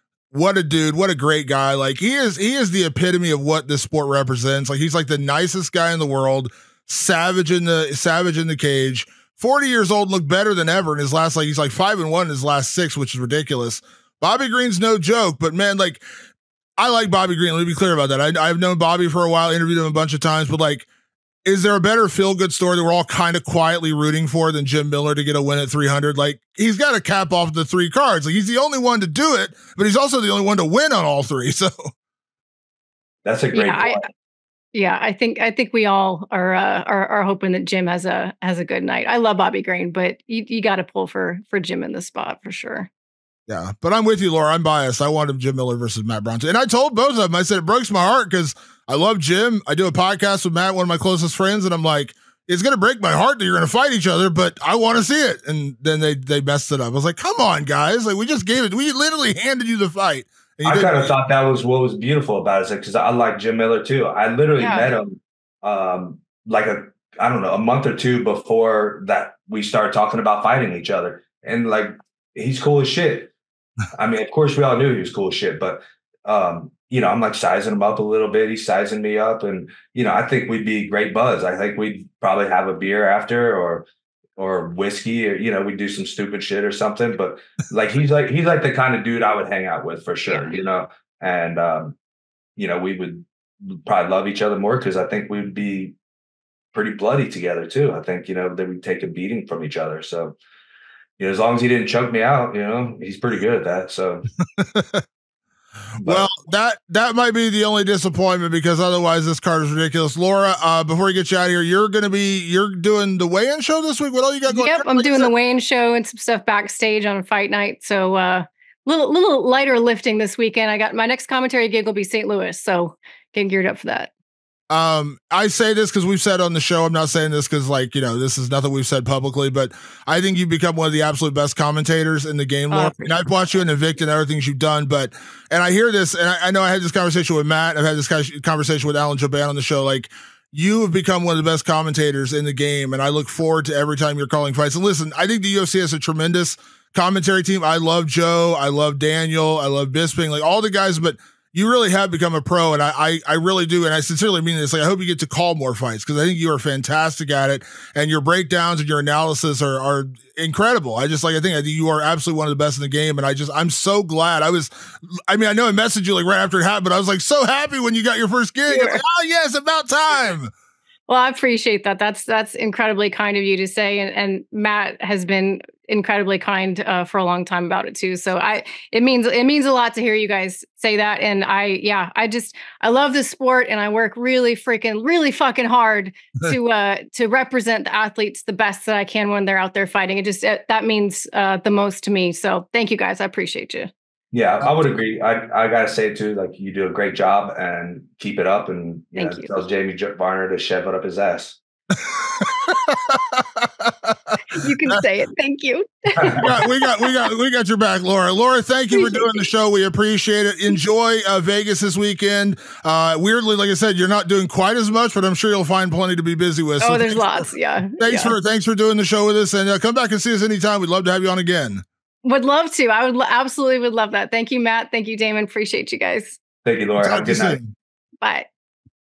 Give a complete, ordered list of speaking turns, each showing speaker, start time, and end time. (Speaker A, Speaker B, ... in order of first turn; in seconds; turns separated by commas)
Speaker A: 0.3-16.0, Speaker A: 16.8-20.9, Speaker A: 21.4-31.9, Speaker B: 33.2-34.1, Speaker C: 33.5-34.0, Speaker C: 34.7-42.9, Speaker A: 43.5-61.1, Speaker B: 60.6-73.3, Speaker C: 64.6-64.9, Speaker B: 73.9-83.8, Speaker B: 84.4-92.0, Speaker C: 90.3-90.6, Speaker B: 92.6-95.9, Speaker B: 96.7-100.3, Speaker B: 101.2-104.3, Speaker A: 104.5-105.0, Speaker B: 106.0-106.3, Speaker A: 106.0-115.3, Speaker C: 114.5-124.1, Speaker A: 124.7-170.5, Speaker C: 132.7-133.2, Speaker C: 168.7-169.0, Speaker C: 171.1-193.9, Speaker B: 194.3-201.6, Speaker C: 199.2-199.5, Speaker A: 201.9-205.0, Speaker C: 204.5-207.1, Speaker B: 206.2-206.5, Speaker A: 206.4-221.8, Speaker C: 208.9-209.5, Speaker C: 216.8-218.3, Speaker C: 222.2-226.4, Speaker B: 226.6-227.6, Speaker A: 227.0-227.7, Speaker C: 228.2-228.5